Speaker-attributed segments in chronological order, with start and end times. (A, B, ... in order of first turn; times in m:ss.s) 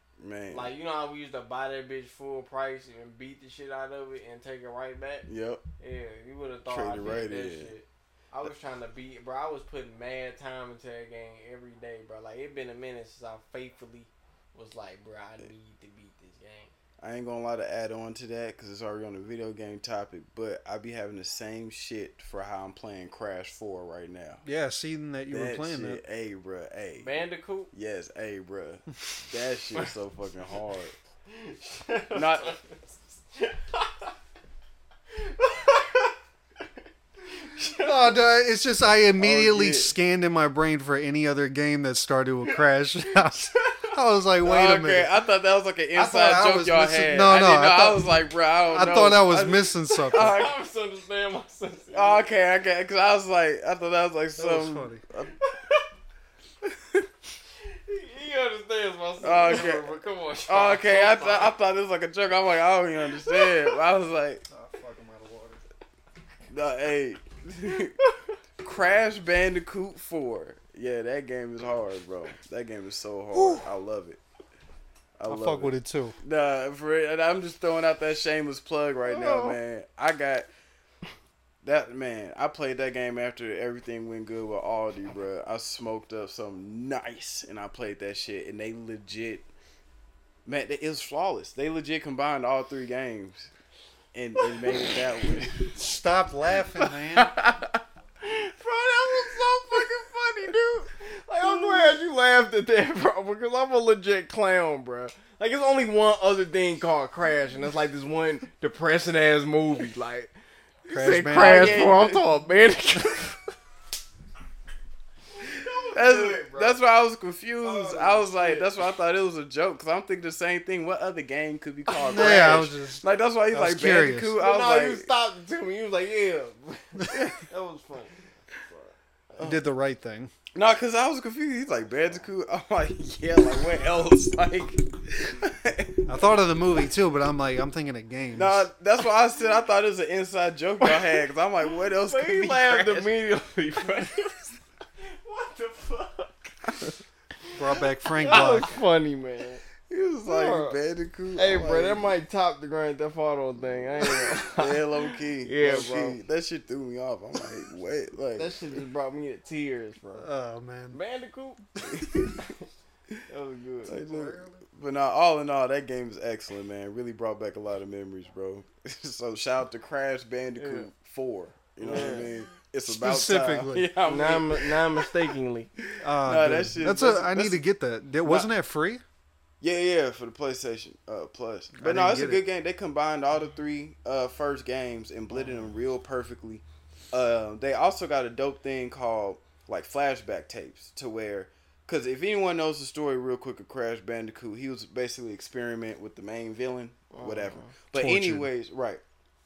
0:00.2-0:00.7 A
0:00.5-0:05.3 B
0:05.3-0:05.6 A
0:05.8-0:16.7 B
0:06.7-0:07.7 A
0:17.0-0:24.4 A
0:24.4-0:26.0 C
0:25.3-0:27.1 A
0:27.0-0:27.7 B
0:27.7-0:31.0 A
0:31.3-0:32.7 B
0:32.1-0:32.6 A
0:33.3-0:34.1 B
0:35.1-0:36.6 B
0:37.3-0:38.2 B
0:37.8-0:45.1 C
0:39.2-0:40.0 A
0:43.2-0:44.0 B
0:44.4-0:50.5 A
0:46.0-0:48.1 C
0:48.7-0:50.4 C
0:49.9-0:52.3 B
0:51.9-0:55.4 A
0:54.4-0:55.0 C
0:55.4-0:55.9 B
0:56.6-0:57.1 A
0:57.6-1:01.5 B
0:59.2-0:59.9 A
1:00.5-1:04.4 A
1:03.2-1:03.7 B
1:04.5-1:05.6 C
1:06.5-1:08.0 A
1:08.6-1:14.2 A
1:13.3-1:13.7 C
1:15.2-1:20.5 A
1:15.3-1:16.2 C
1:19.0-1:19.6 B
1:21.6-1:29.5 A
1:30.5-1:33.5 A
1:34.1-1:35.7 A
1:34.4-1:35.3 B
1:35.8-1:37.4 C
1:36.8-1:37.8 A
1:38.2-1:50.3 B
1:39.2-1:40.0 A
1:41.4-1:42.0 A
1:50.8-1:53.4 B
1:50.9-1:51.9 C
1:51.3-1:52.2 A
1:55.4-1:56.8 B
1:55.9-2:05.1 A
1:57.6-1:58.7 B
2:01.9-2:02.7 B
2:02.1-2:04.3 C
2:04.4-2:09.0 B
2:07.1-2:07.4 A
2:09.4-2:09.6 A
2:09.4-2:10.3 C
2:10.5-2:16.2 A
2:16.1-2:18.7 C
2:18.4-2:23.1 A
2:20.8-2:26.9 B
2:27.4-2:29.6 B
2:27.6-2:28.8 C
2:29.9-2:32.1 A
2:30.3-2:30.8 B
2:31.4-2:36.2 B
2:34.0-2:38.6 A
2:38.4-2:40.3 B
2:40.1-2:41.0 C
2:40.9-2:41.6 B
2:41.9-2:42.4 A
2:42.4-2:42.6 B
2:43.3-2:44.0 B
2:43.9-2:55.2 A
2:43.9-2:44.6 C
2:50.6-2:50.9 B
2:51.8-2:52.3 B
2:52.8-2:53.9 C
2:54.0-2:55.7 B
2:55.8-2:57.6 A
2:56.0-2:59.0 C
2:59.6-3:19.0 A
3:01.8-3:02.4 C
3:17.1-3:17.7 B
3:17.9-3:18.5 C